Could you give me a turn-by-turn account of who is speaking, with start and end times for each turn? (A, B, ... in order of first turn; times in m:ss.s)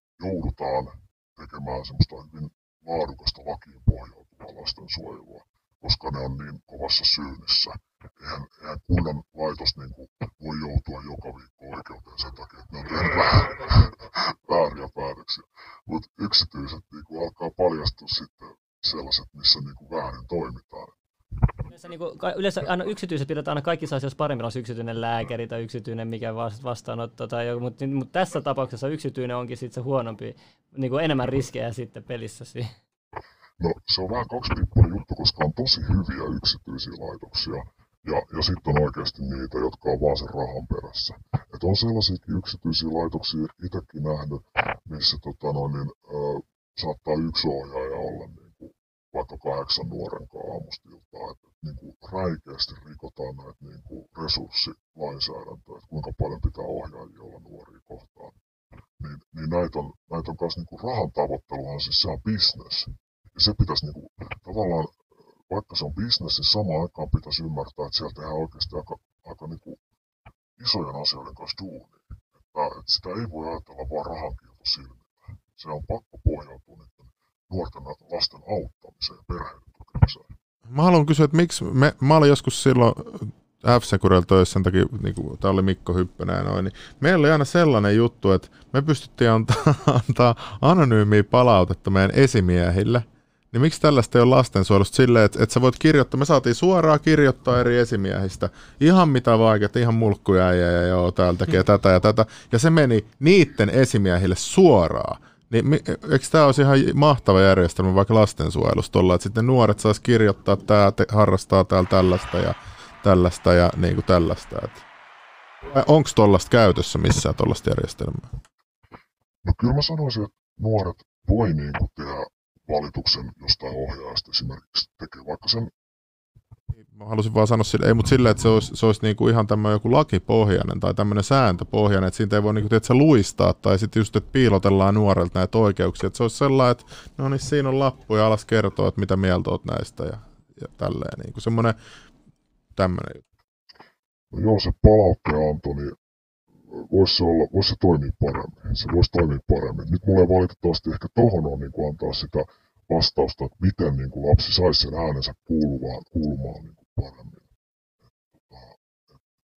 0:00.2-0:20.9 A
0:21.7-0:32.7 B
0:33.6-0:58.4 A
0:59.0-1:09.8 A
1:10.6-1:20.3 A
1:20.7-1:54.8 C
1:55.7-1:58.3 C
1:59.4-2:05.7 A
2:06.9-2:21.8 C
2:22.8-2:23.2 C
2:24.3-2:26.0 A
2:26.7-2:37.5 A
2:38.1-2:39.2 A